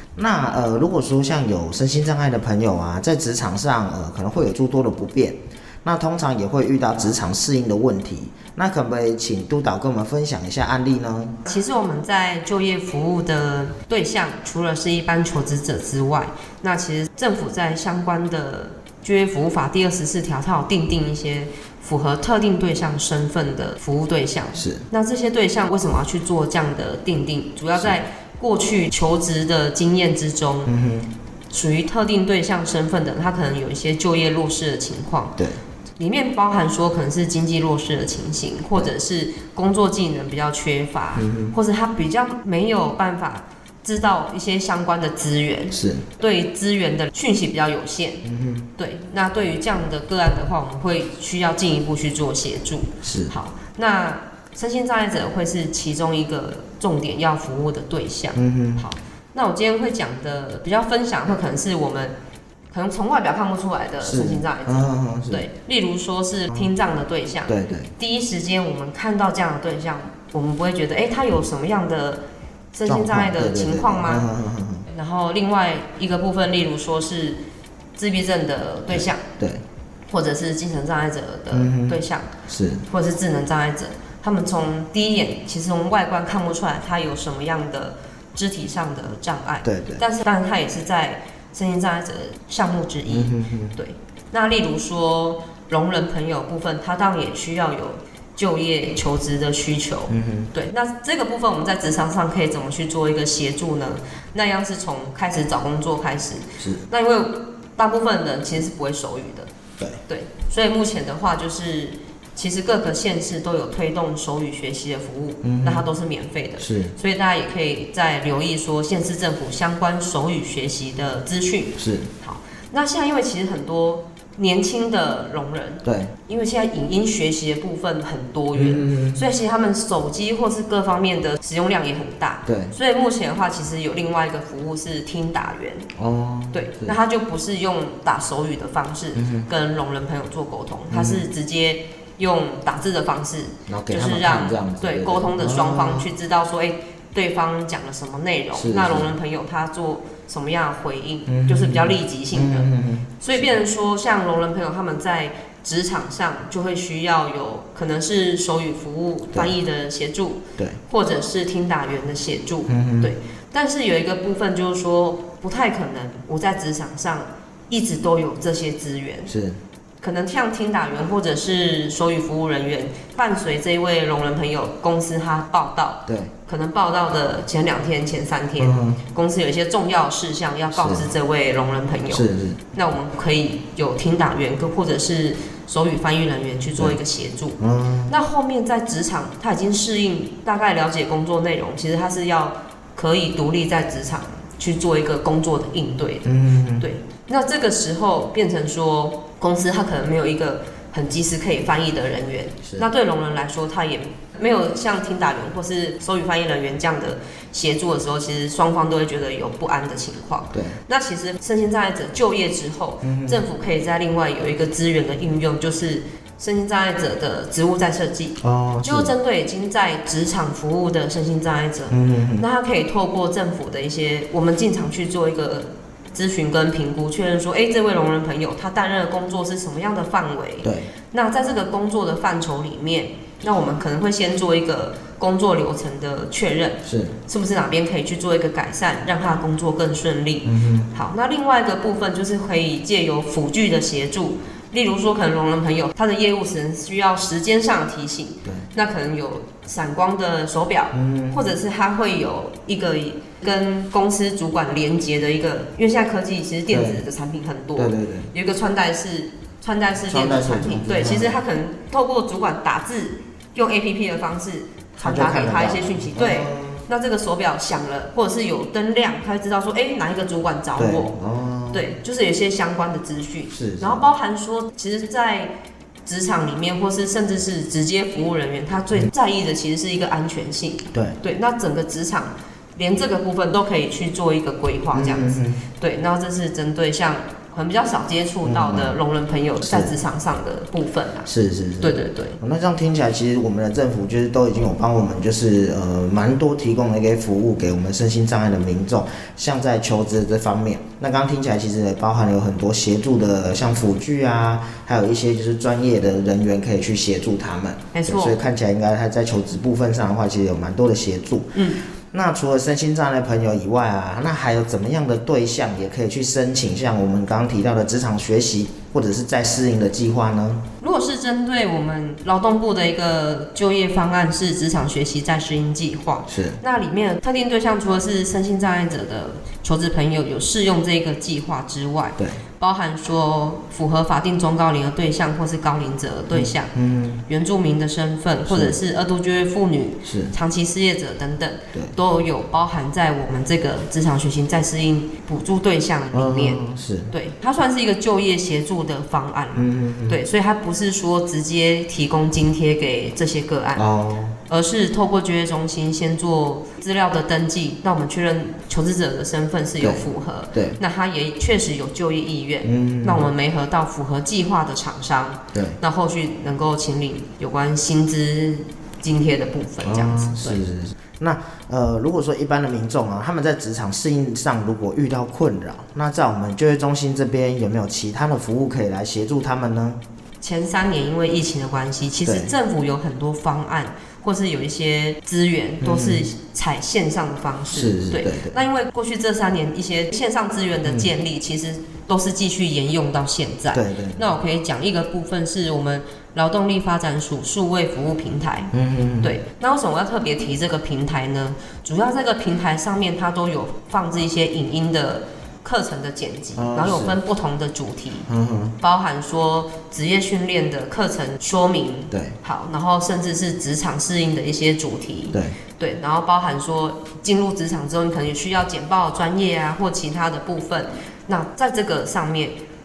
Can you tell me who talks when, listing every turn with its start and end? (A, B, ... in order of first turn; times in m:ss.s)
0:00.2-0:11.4 A
0:11.4-0:30.7 B
0:24.6-0:24.8 A
0:30.6-0:31.1 A
0:31.5-0:35.4 B
0:36.0-0:48.2 B
0:41.2-0:41.5 A
0:45.7-0:46.0 A
0:48.2-0:48.7 A
0:48.8-1:02.2 B
0:53.0-0:53.3 A
0:58.3-0:58.8 A
1:02.7-1:14.3 B
1:04.0-1:05.4 A
1:07.5-1:07.9 A
1:12.8-1:14.9 A
1:14.9-1:17.4 B
1:18.0-1:19.2 B
1:18.9-1:19.6 A
1:20.1-1:22.3 B
1:21.5-1:22.8 A
1:22.9-1:49.5 B
1:29.6-1:30.0 A
1:33.1-1:33.8 A
1:40.1-1:40.5 A
1:46.6-1:46.9 A
1:50.1-2:15.9 B
1:55.4-1:55.8 A
1:56.6-1:56.9 A
2:01.8-2:02.1 A
2:05.8-2:06.1 A
2:08.5-2:09.2 A
2:12.4-2:12.7 A
2:16.0-2:16.9 A
2:16.5-2:49.3 B
2:19.2-2:19.5 A
2:20.9-2:21.2 A
2:23.7-2:26.0 A
2:28.5-2:29.1 A
2:31.3-2:33.4 A
2:42.7-2:43.1 A
2:49.3-2:49.6 A
2:50.0-4:31.1 B
2:56.1-2:56.3 A
2:58.6-2:59.0 A
3:00.7-3:01.1 A
3:02.1-3:02.6 A
3:07.6-3:08.1 A
3:16.2-3:16.9 A
3:30.5-3:30.8 A
3:33.0-3:33.4 A
3:38.4-3:39.1 A
3:41.9-3:42.5 A
3:50.6-3:50.9 A
3:56.8-3:57.2 A
4:00.4-4:00.9 A
4:10.9-4:11.5 A
4:16.7-4:17.0 A
4:17.8-4:18.3 A
4:20.1-4:21.4 A
4:25.0-4:26.8 A
4:30.8-4:31.9 A
4:31.7-4:35.5 B
4:33.5-4:34.0 A
4:36.0-4:51.3 B
4:44.9-4:45.6 A
4:48.4-4:49.0 A
4:49.6-4:50.0 A
4:51.2-5:11.6 A
4:51.8-4:52.4 B
5:07.9-5:08.4 B
5:11.5-5:11.8 B
5:12.1-5:20.7 A
5:20.8-5:36.7 B
5:26.3-5:26.6 A
5:36.3-5:37.2 A
5:37.3-5:53.9 B
5:38.4-5:38.8 A
5:40.0-5:40.3 A
5:46.1-5:47.1 A
5:49.5-5:50.2 A
5:53.8-5:54.4 A
5:54.5-6:10.6 B
6:00.5-6:00.8 A
6:02.6-6:03.3 A
6:05.5-6:05.8 A
6:09.8-6:20.0 A
6:20.4-6:48.3 B
6:22.2-6:22.5 A
6:25.8-6:26.2 A
6:27.7-6:28.6 A
6:30.8-6:31.1 A
6:33.7-6:34.3 A
6:38.7-6:39.4 A
6:46.6-6:47.2 A
6:48.3-6:48.8 A
6:48.8-7:02.6 B
6:52.1-6:52.4 A
6:55.3-6:55.6 A